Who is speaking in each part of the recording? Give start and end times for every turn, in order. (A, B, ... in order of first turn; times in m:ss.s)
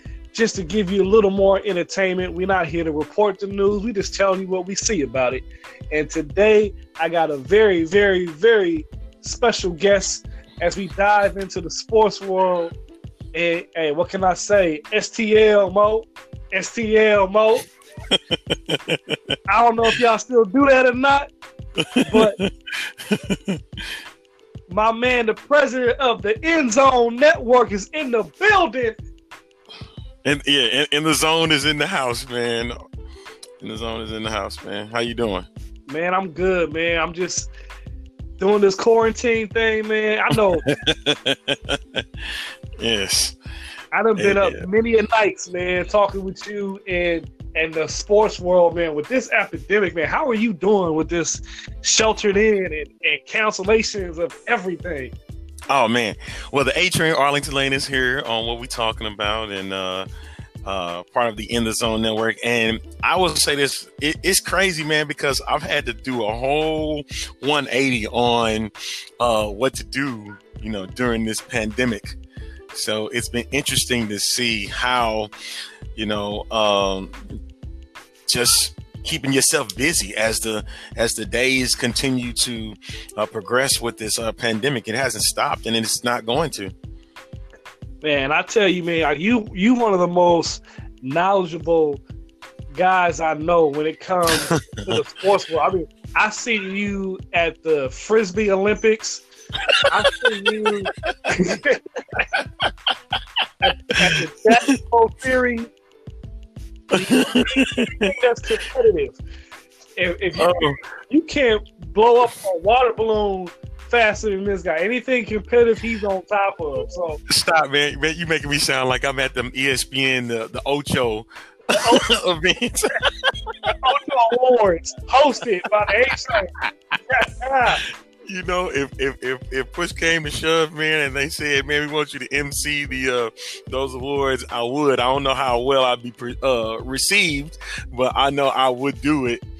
0:00.3-0:12.7 A
0:13.3-0:17.6 A
0:18.1-0:19.4 B
0:19.5-0:21.3 A
0:21.8-0:23.8 B
0:22.0-0:22.4 A
0:24.7-0:29.0 A
0:30.2-0:32.7 B
0:33.6-0:35.5 B
0:35.9-0:37.5 A
0:38.4-0:40.6 A
0:40.6-0:42.0 B
0:42.8-0:43.4 B
0:43.9-0:55.1 A
0:44.2-0:44.6 B
0:55.7-1:00.1 B
1:00.6-1:12.2 B
1:12.7-1:15.3 B
1:15.9-1:17.2 B
1:18.3-1:26.7 B
1:28.0-1:32.0 A
1:32.7-1:39.2 A
1:34.4-1:35.0 B
1:39.6-1:41.2 B
1:39.8-1:42.3 A
1:42.4-1:42.7 B
1:43.6-1:45.7 A
1:46.9-1:49.2 A
1:47.0-1:48.1 B
1:50.0-1:57.2 A
1:50.4-1:50.8 B
1:57.3-2:03.7 B
2:01.7-2:02.0 A
2:03.6-2:06.5 A
2:06.3-2:06.6 B
2:07.1-2:07.8 A
2:07.8-2:19.4 B